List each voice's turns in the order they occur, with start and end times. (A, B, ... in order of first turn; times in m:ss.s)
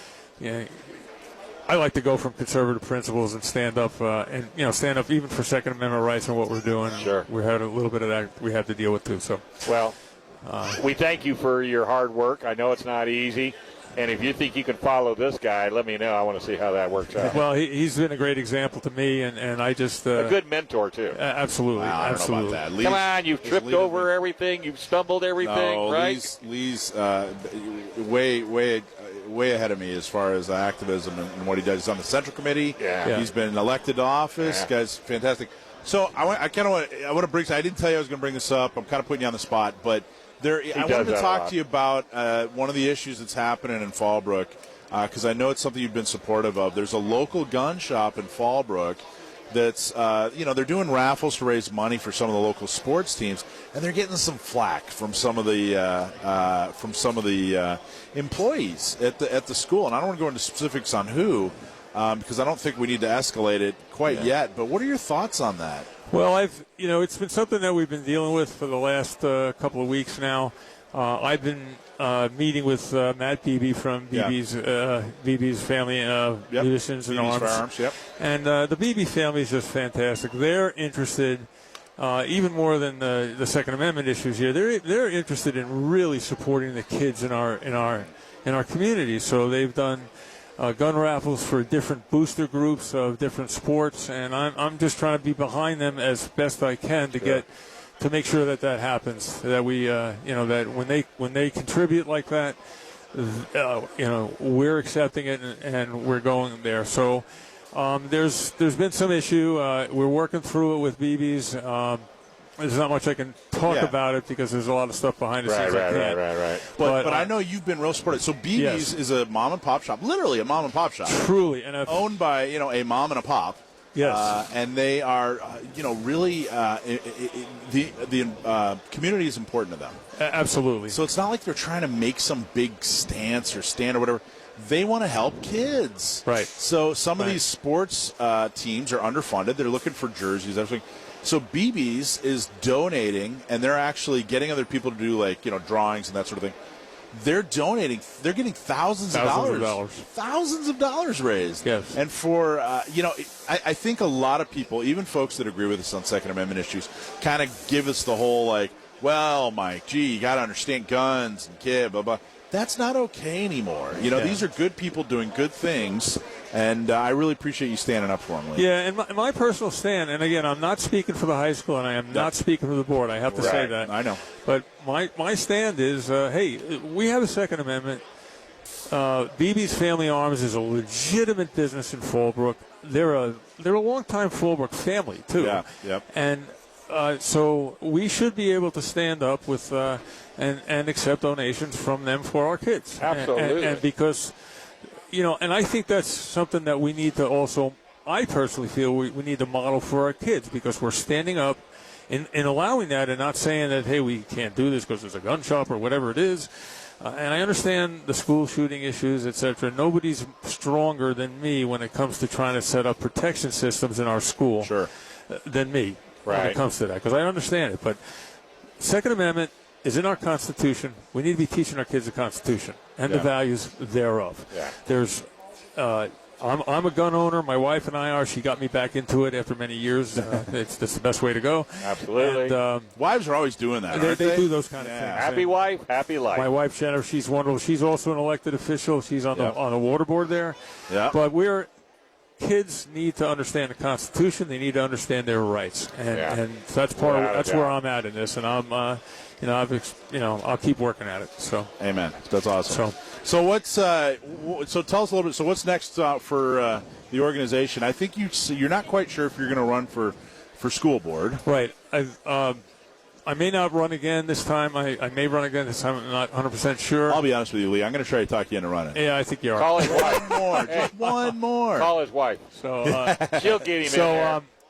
0:00.4-0:01.0 A
0:01.7-0:09.4 A
0:07.0-0:07.3 B
0:09.6-0:10.0 B
0:10.4-0:10.8 A
0:10.7-0:17.4 B
0:17.2-0:20.4 A
0:20.1-0:21.2 B
0:21.1-0:22.6 A
0:21.7-0:24.1 C
0:22.8-0:26.3 B
0:25.4-1:05.9 C
0:32.8-0:33.1 B
0:34.4-0:34.7 B
0:40.7-0:41.5 B
1:06.1-1:37.5 A
1:16.5-1:18.0 C
1:38.0-1:42.6 A
1:43.1-1:52.0 A
1:52.6-1:57.3 A
1:53.6-1:53.9 C
1:55.4-1:56.7 B
1:56.8-2:01.2 C
1:58.5-1:58.9 A
2:01.0-2:02.1 A
2:01.8-2:10.0 C
2:03.9-2:04.4 A
2:10.2-2:11.0 A
2:10.9-2:26.5 C
2:16.2-2:16.5 A
2:27.1-2:48.6 C
2:29.1-2:30.1 A
2:31.6-2:32.0 A
2:44.1-2:44.4 A
2:48.5-2:58.0 A
2:53.3-2:54.2 C
2:53.4-2:53.6 B
2:58.9-3:14.4 A
3:05.4-3:06.0 C
3:13.0-3:13.8 B
3:15.1-3:34.7 A
3:34.6-3:34.9 C
3:35.3-3:38.0 A
3:36.2-3:36.6 B
3:38.8-3:52.9 A
3:51.8-3:52.6 B
3:53.0-3:55.2 C
3:53.9-3:55.7 A
3:55.1-3:56.5 B
3:56.3-4:01.7 A
4:00.9-4:01.2 C
4:02.4-4:11.7 A
4:06.1-4:06.4 B
4:07.0-4:07.8 B
4:11.8-4:21.4 C
4:12.6-4:13.0 A
4:21.4-4:22.6 A
4:23.2-4:27.2 A
4:27.1-4:29.0 C
4:28.9-4:30.2 A
4:29.6-4:32.4 B
4:29.8-4:31.9 C
4:32.5-4:34.5 A
4:32.8-4:33.5 C
4:33.2-4:34.4 B